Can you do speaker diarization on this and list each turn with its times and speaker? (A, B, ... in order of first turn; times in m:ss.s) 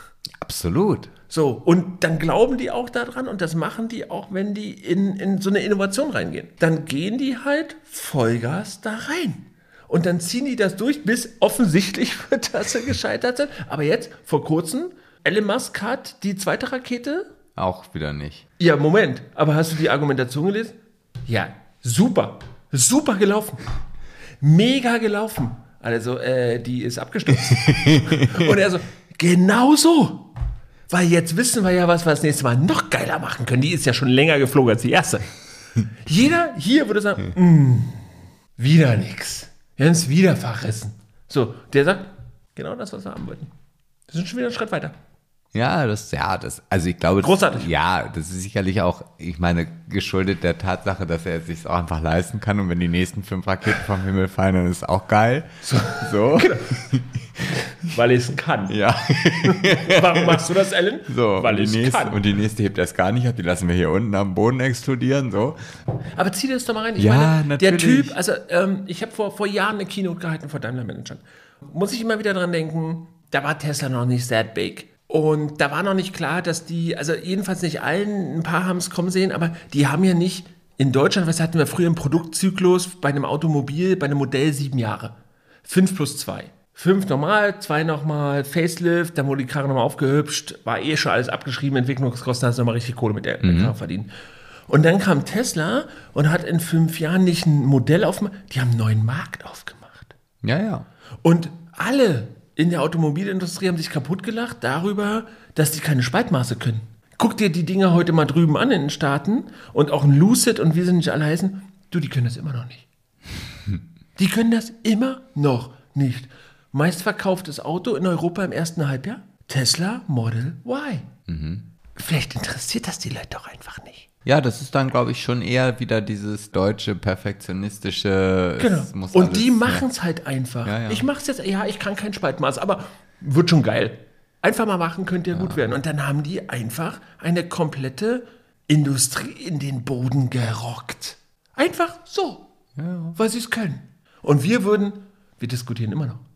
0:00.4-0:01.1 A
0:01.3-0:17.3 B
0:17.6-0:18.5 A
0:18.6-0:23.6 B
0:24.4-0:30.3 B
0:27.8-0:28.5 A
0:30.9-0:35.3 B
0:36.0-0:38.0 B
0:38.6-0:43.5 B
0:44.1-0:45.0 B
0:45.5-0:57.1 A
0:47.2-0:47.7 B
0:55.6-0:56.9 B
0:57.5-0:58.8 B
0:58.7-1:00.5 A
0:59.4-1:02.2 B
1:01.1-1:05.6 A
1:06.2-1:34.1 B
1:07.0-1:08.2 A
1:33.4-1:33.7 A
1:34.7-1:40.1 B
1:40.4-1:40.9 A
1:41.2-1:52.8 B
1:54.2-2:01.1 B
2:01.3-2:01.7 A
2:02.0-2:04.1 B
2:04.2-2:09.9 A
2:08.6-2:22.5 B
2:10.6-2:11.1 A
2:15.3-2:15.6 A
2:22.8-2:23.2 A
2:23.2-2:26.2 B